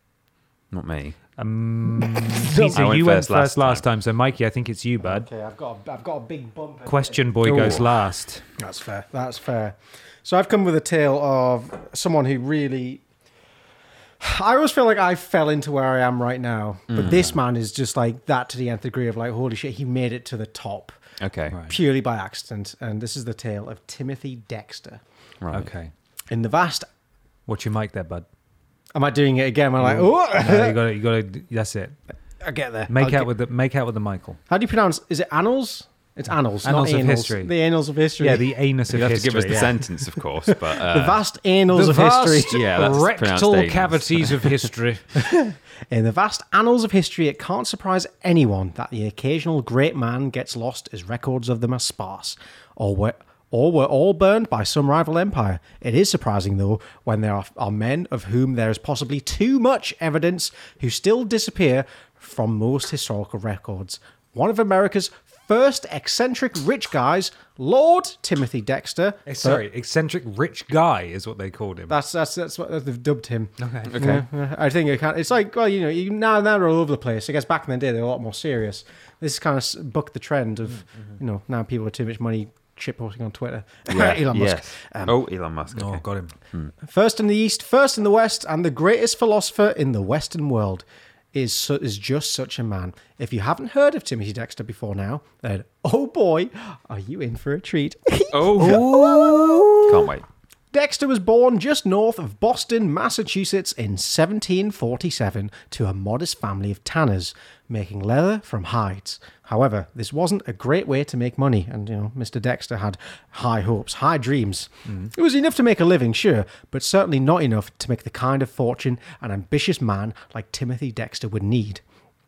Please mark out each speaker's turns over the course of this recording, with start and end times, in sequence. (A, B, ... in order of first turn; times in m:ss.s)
0:00.7-0:01.2 A
0:01.4-0:05.3 B
0:02.0-0:03.8 A
0:05.0-0:07.8 C
0:06.8-0:08.4 B
0:07.4-0:07.8 A
0:08.6-0:13.0 C
0:14.2-0:21.0 C
0:16.9-0:17.3 A
0:21.2-0:21.6 A
0:21.5-0:21.8 B
0:21.7-0:25.0 C
0:25.4-0:25.7 A
0:25.5-0:25.9 B
0:26.3-0:26.8 C
0:27.5-0:28.2 B
0:28.9-0:30.8 C
0:29.8-0:32.0 B
0:32.4-0:33.3 C
0:32.9-0:34.4 B
0:34.5-0:38.5 C
0:36.6-0:37.5 B
0:38.2-0:39.8 B
0:38.9-0:41.2 A
0:40.5-0:42.7 C
0:41.7-0:45.0 B
0:42.5-0:44.7 A
0:45.1-1:09.6 C
1:09.2-1:12.0 B
1:11.9-1:25.2 C
1:13.6-1:14.0 B
1:13.9-1:14.2 A
1:23.9-1:26.7 A
1:25.7-1:26.3 B
1:26.8-1:39.9 C
1:38.3-1:38.9 A
1:38.6-1:40.0 B
1:39.8-1:40.2 A
1:40.7-2:01.8 C